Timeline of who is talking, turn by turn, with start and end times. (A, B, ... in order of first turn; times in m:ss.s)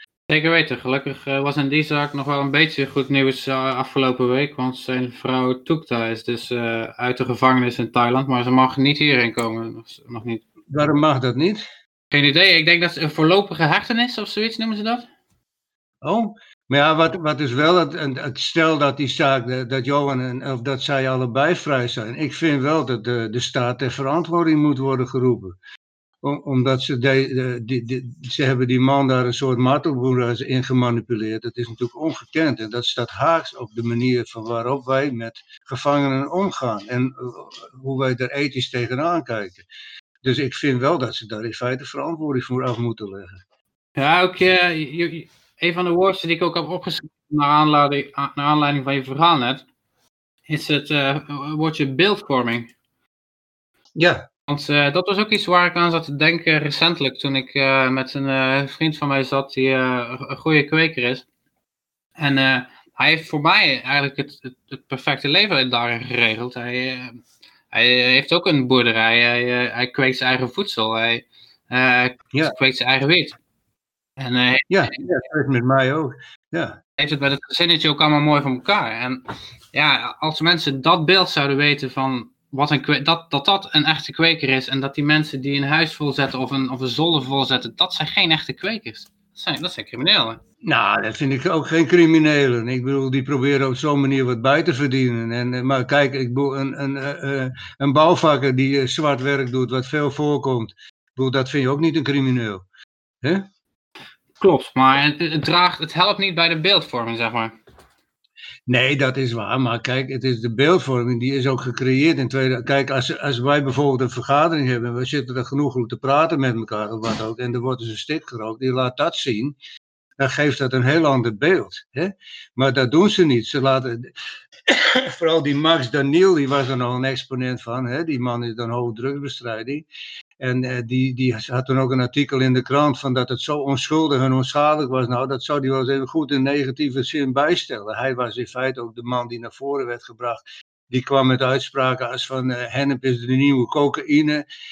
0:00.3-0:10.4 A
0:10.7-0:11.6 B
0:12.1-0:15.1 A
0:16.0-0:25.6 B
0:26.2-0:39.6 B
0:40.2-0:43.4 B
0:44.0-0:49.6 A
0:50.5-0:52.7 A
0:54.0-0:54.2 B
0:54.5-1:01.2 A
1:02.2-1:07.2 A
1:07.7-1:13.4 A
1:14.2-1:15.0 A
1:14.7-1:16.8 B
1:17.0-1:19.2 A
1:19.7-1:30.4 A
1:30.6-1:42.6 B
1:44.4-1:47.5 A
1:48.7-1:59.6 B
2:00.2-2:04.1 B
2:04.7-2:09.9 B
2:10.4-2:24.4 B